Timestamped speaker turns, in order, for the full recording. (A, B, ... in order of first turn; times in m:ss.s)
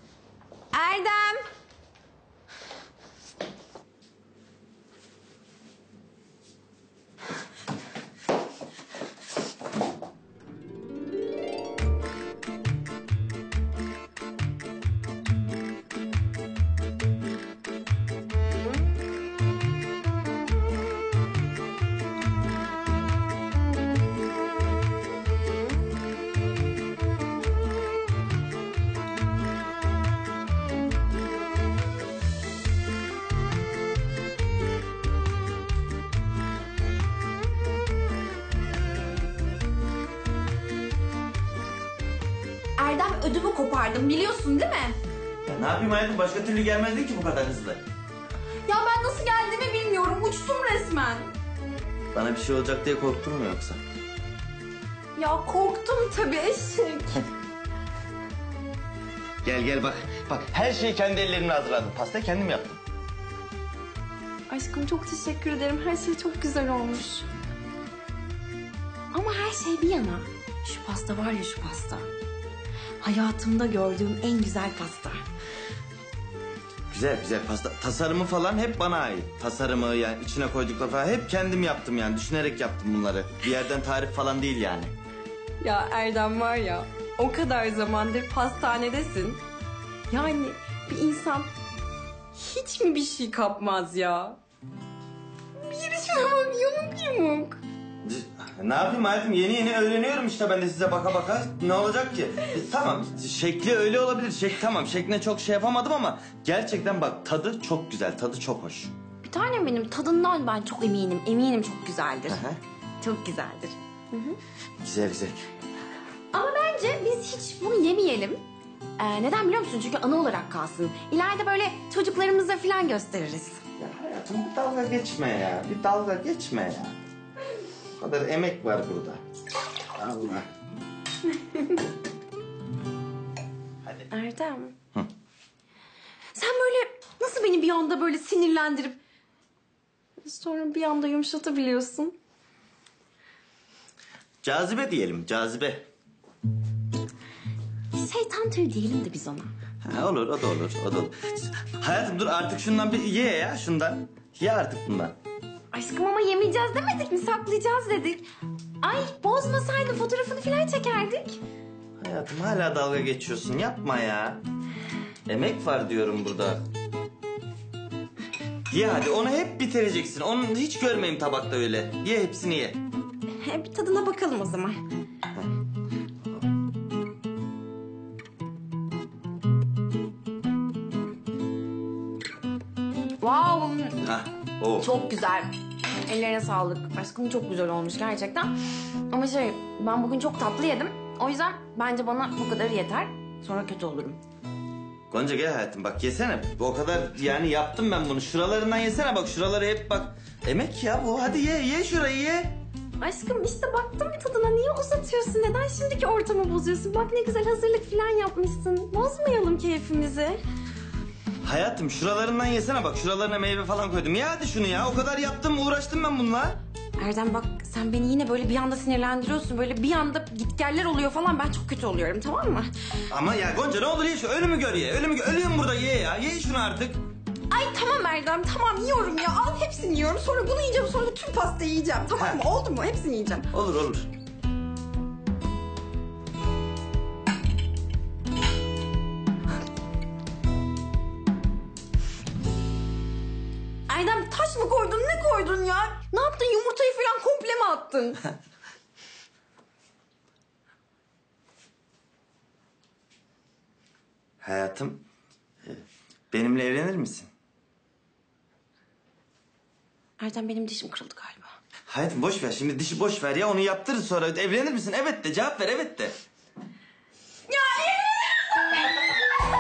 0:00.7-0:01.4 A
0:42.8-0:45.0 A
0:45.4-0:47.8 B
0:48.7-0:51.3 A
0:52.1-0:53.8 B
0:55.2-0:57.3 A
0:59.4-1:02.8 B
1:04.5-1:07.3 A
1:09.1-1:12.1 A
1:13.0-1:15.2 A
1:16.9-1:24.9 B
1:25.6-1:29.4 A
1:30.1-1:31.5 A
1:32.3-1:34.4 A
1:35.6-1:37.6 A
1:38.0-1:48.9 B
1:49.2-1:52.4 A
1:52.3-1:52.6 B
1:53.0-1:54.4 A
1:54.8-1:55.4 B
1:56.3-1:58.4 A
1:59.0-2:03.6 A
2:03.8-2:07.0 B
2:08.0-2:09.2 B
2:10.0-2:10.5 B
2:11.4-2:11.8 A
2:14.1-2:14.8 A
2:16.3-2:19.0 A
2:20.2-2:22.1 A
2:24.4-2:25.8 B
2:27.9-2:29.5 A
2:29.8-2:35.2 B
2:35.7-2:38.2 A
2:38.8-2:41.4 A
2:42.0-2:44.4 B
2:45.3-2:46.6 B
2:48.7-2:52.8 B
2:53.4-2:54.8 A
3:03.2-3:04.0 A
3:04.0-3:04.9 B
3:04.8-3:05.5 A
3:06.1-3:08.5 A
3:09.1-3:14.2 A
3:15.1-3:22.6 B
3:23.0-3:30.4 A
3:31.4-3:36.6 B
3:37.0-3:42.7 A
3:43.1-3:47.0 B
3:47.5-3:53.5 A
3:52.2-3:52.4 B
3:53.5-3:54.1 B
4:03.9-4:08.3 A
4:14.4-4:15.0 B
4:15.6-4:17.3 B
4:20.2-4:21.6 A
4:21.9-4:26.2 B
4:27.5-4:28.6 A